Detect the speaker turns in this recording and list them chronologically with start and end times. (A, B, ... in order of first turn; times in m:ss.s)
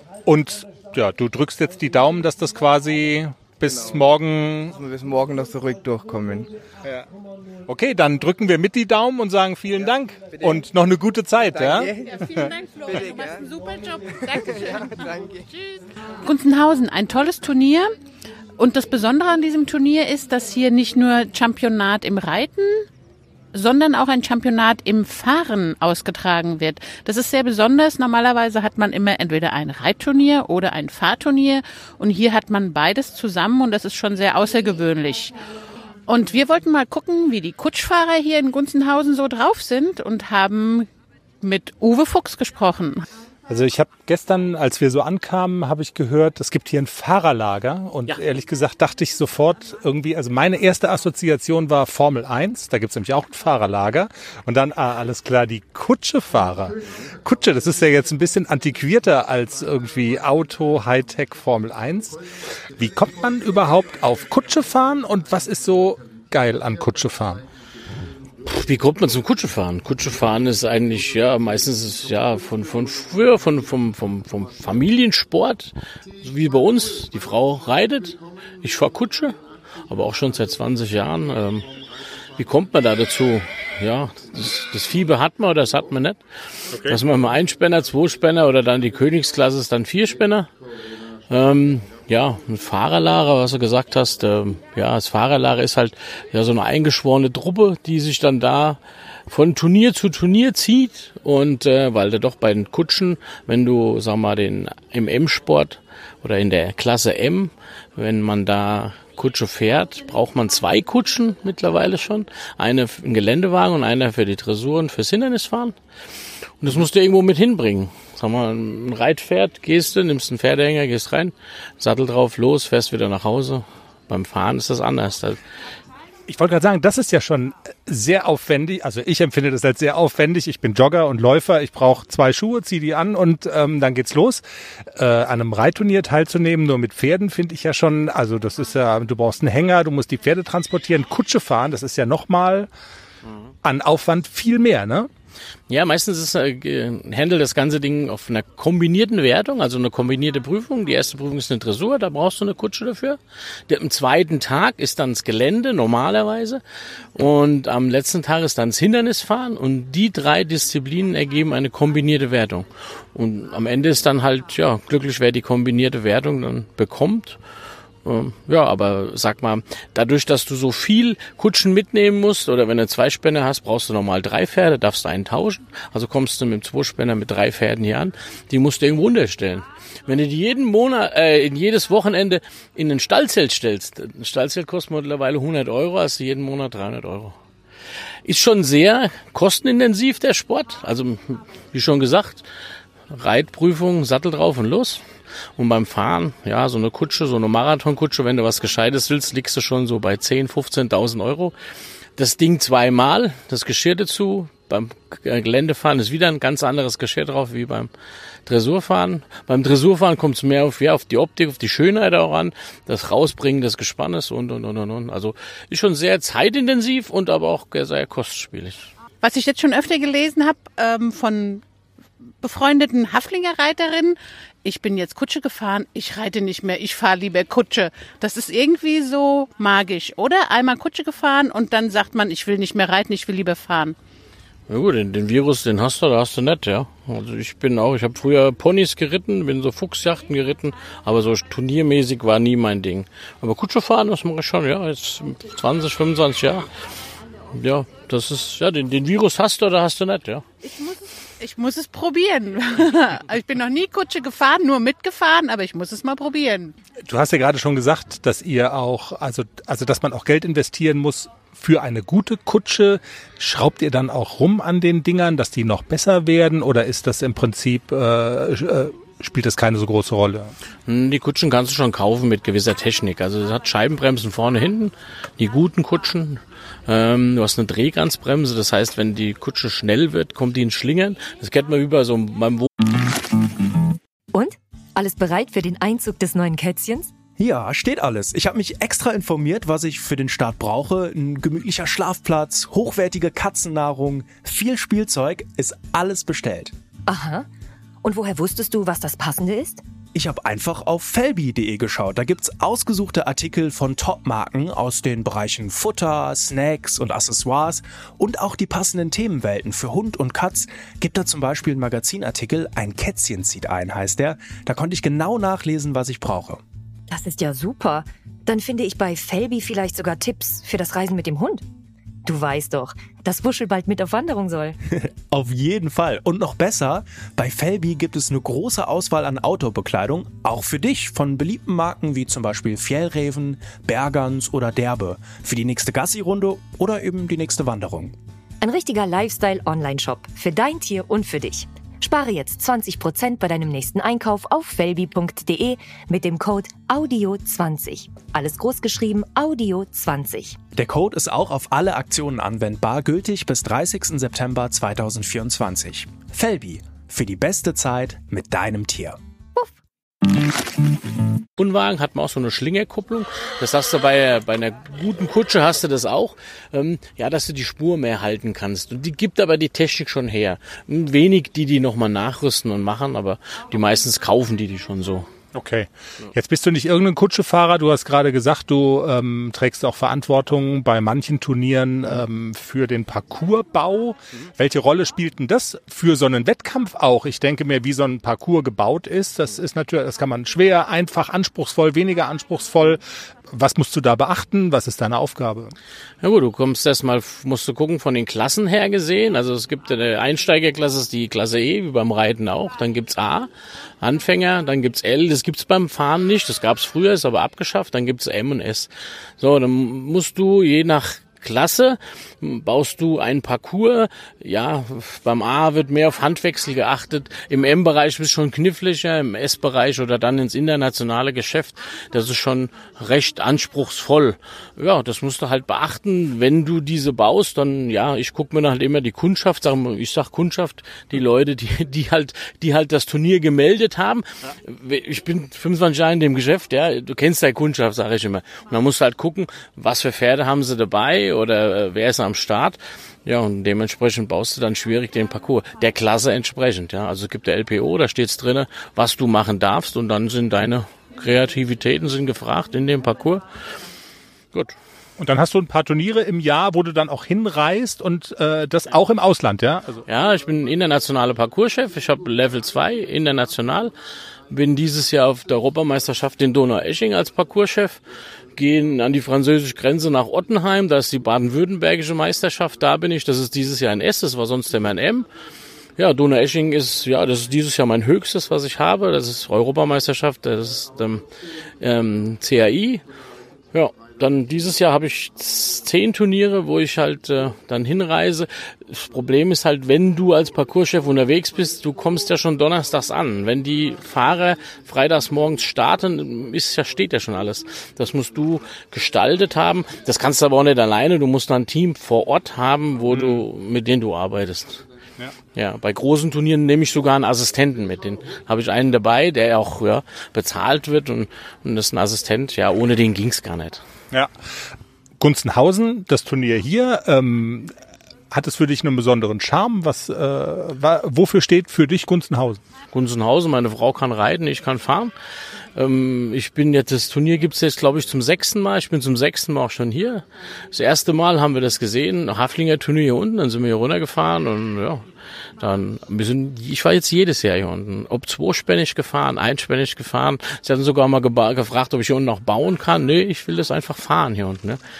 0:00.2-0:04.8 A
0:03.6-0:04.0 B
0:04.8-0:06.5 B
0:07.7-0:11.9 A
0:10.3-0:10.6 B
0:11.5-0:13.4 B
0:12.2-0:17.9 C
0:14.3-0:15.4 B
0:18.6-0:22.9 C
0:23.5-0:35.3 C
0:36.1-0:40.9 C
0:41.4-0:43.0 C
0:43.5-1:02.2 A
1:02.8-1:07.4 A
1:08.4-1:19.4 D
1:19.9-1:21.6 D
1:22.4-1:26.2 D
1:26.7-1:27.0 A
1:26.8-1:30.5 D
1:31.3-1:55.7 D
1:56.6-2:05.4 D
2:06.3-2:22.7 A
2:23.6-2:25.1 A
2:25.7-2:36.6 D
2:37.1-2:47.4 D
2:48.0-3:07.3 D
3:08.2-3:12.5 D
3:13.1-3:15.0 D
3:15.6-3:21.5 D
3:22.2-3:27.9 D
3:28.4-3:38.9 D
3:39.2-3:41.6 C
3:42.4-3:53.9 C
3:54.7-4:06.7 D
4:07.5-4:10.4 D
4:10.6-4:16.7 C
4:17.0-4:30.5 A
4:30.9-4:42.7 D
4:44.3-4:47.1 E
4:47.4-4:56.7 F
4:57.1-4:57.5 E
4:58.0-4:59.8 E
5:00.1-5:16.6 F
5:17.1-5:21.6 E
5:22.2-5:24.8 E
5:25.0-5:38.2 F
5:38.6-5:50.6 E
5:50.8-5:59.2 F
6:01.6-6:15.3 D
6:15.5-6:35.7 A
6:36.2-6:43.5 D
6:44.0-7:33.5 D
7:35.2-7:40.0 A
7:40.1-7:43.9 D
7:44.5-7:48.0 D
7:48.6-7:55.3 D
7:56.0-8:01.2 D
8:01.8-8:03.0 D
8:03.7-8:24.8 D
8:23.1-8:23.4 A
8:25.5-8:33.8 D
8:35.2-8:37.7 A
8:38.3-8:42.6 A
8:42.9-8:45.1 D
8:45.7-8:55.0 D
8:55.6-9:04.8 D